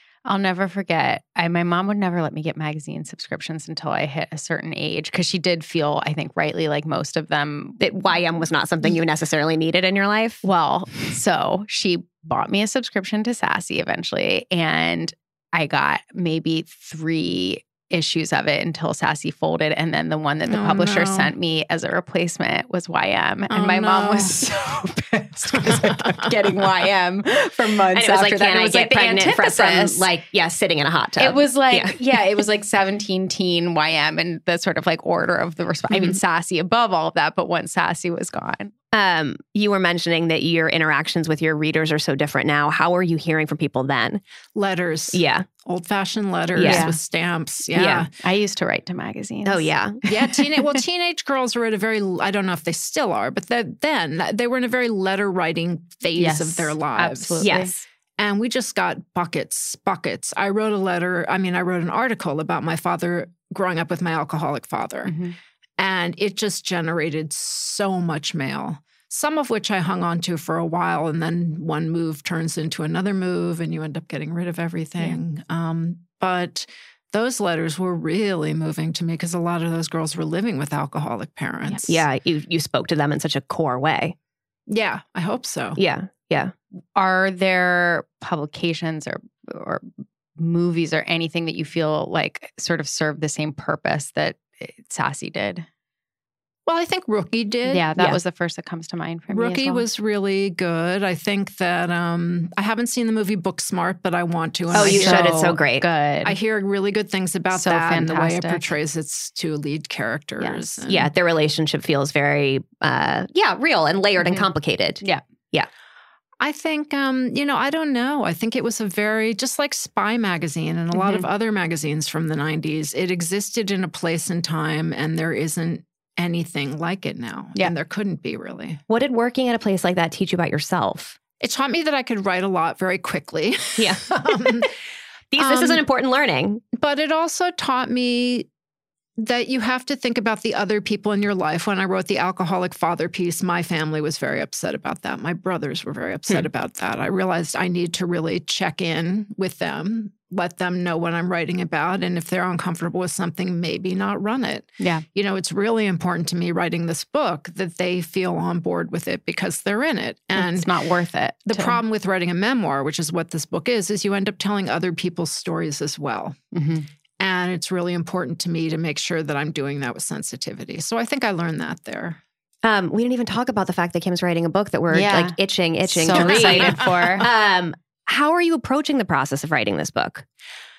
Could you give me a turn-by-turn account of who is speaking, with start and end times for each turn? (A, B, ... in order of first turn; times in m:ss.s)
0:00.2-0:07.8 A
0:07.8-0:10.4 B
0:10.4-0:30.1 A
0:20.5-0:21.3 C
0:23.5-0:24.4 C
0:25.5-0:26.3 C
0:27.9-0:32.0 B
0:31.2-0:38.7 A
0:38.9-0:44.2 B
0:44.6-0:48.1 C
0:45.1-0:45.5 B
0:46.6-0:46.9 B
0:46.6-0:47.0 A
0:47.7-0:48.1 B
0:48.2-0:50.8 A
0:49.4-0:50.0 B
0:50.1-0:57.5 C
0:56.1-0:57.8 A
0:57.4-0:57.7 B
0:58.2-1:05.1 C
1:05.1-1:05.4 A
1:05.8-1:22.0 C
1:21.8-1:24.1 B
1:24.7-1:25.8 C
1:25.8-1:26.5 B
1:27.0-1:29.9 A
1:30.4-1:35.7 A
1:36.7-1:37.9 C
1:37.7-1:39.8 A
1:39.3-1:45.3 C
1:44.7-1:46.4 A
1:44.7-1:45.9 B
1:46.2-1:51.1 C
1:47.5-1:48.7 A
1:50.4-1:50.7 A
1:50.9-1:55.7 B
1:54.2-1:54.5 A
1:56.4-2:08.8 C
2:08.9-2:11.2 B
2:11.4-2:14.7 C
2:13.8-2:14.2 B
2:15.3-2:16.6 B
2:15.4-2:15.8 C
2:16.7-2:18.5 C
2:19.2-2:40.7 C
2:34.8-2:35.0 A
2:40.4-2:41.8 A
2:41.5-2:46.4 C
2:46.5-2:46.9 A
2:47.2-2:52.2 C
2:52.6-3:00.2 B
2:54.9-2:57.2 A
2:56.1-2:57.3 C